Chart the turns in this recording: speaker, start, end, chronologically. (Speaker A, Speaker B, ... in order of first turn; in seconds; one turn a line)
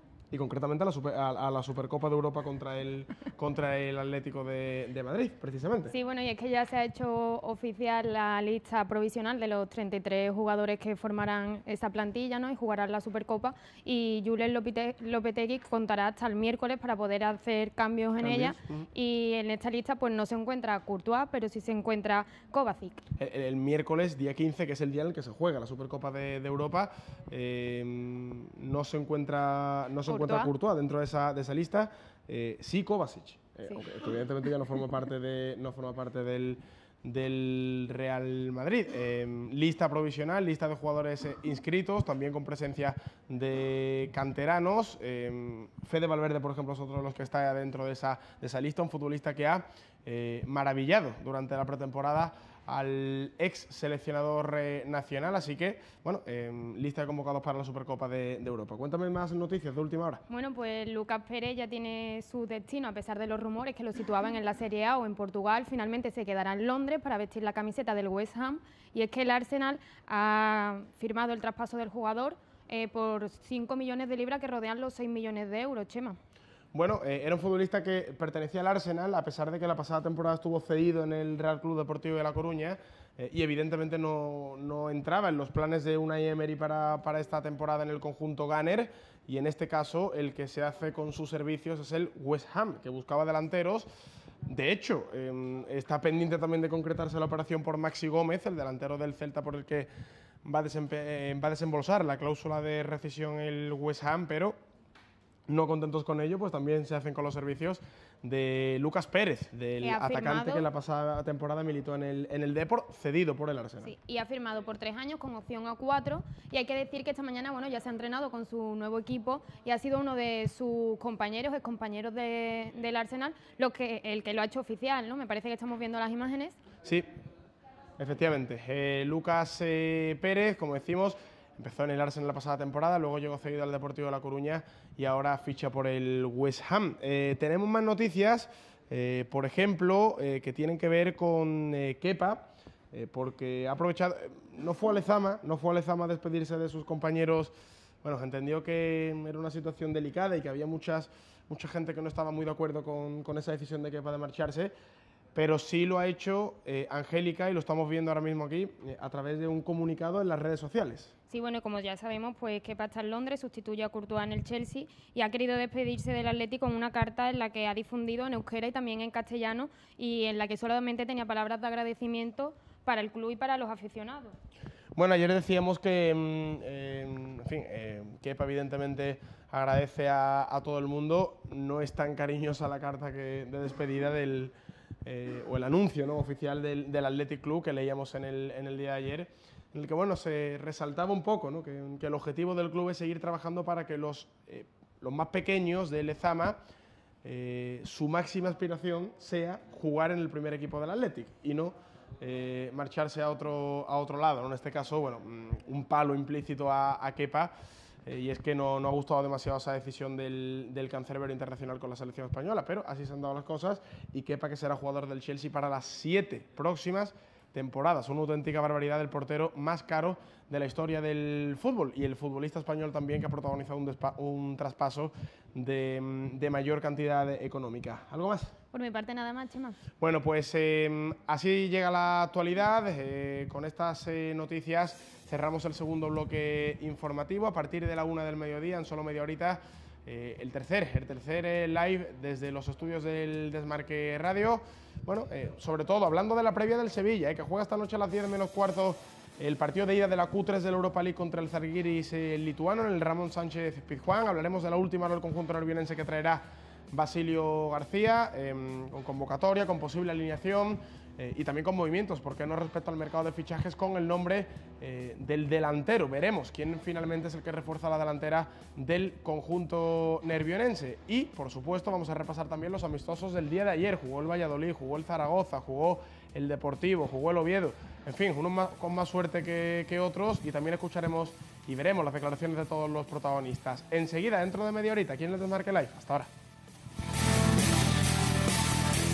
Speaker A: 0.3-5.9
Speaker B: 5.9-23.0
Speaker A: 18.2-18.9
Speaker A: 23.2-60.2
Speaker B: 30.1-30.5
Speaker B: 60.3-76.2
Speaker A: 76.7-93.9
Speaker A: 94.5-99.9
Speaker A: 100.4-104.6
Speaker A: 105.5-113.9
Speaker B: 109.8-110.6
Speaker B: 113.8-126.5
Speaker A: 128.0-147.5
Speaker A: 148.0-154.7
Speaker A: 155.3-161.1
Speaker B: 161.3-174.3
Speaker A: 174.9-196.6
Speaker A: 197.2-207.5
Speaker A: 208.0-228.5
Speaker B: 228.7-229.8
Speaker A: 230.0-286.3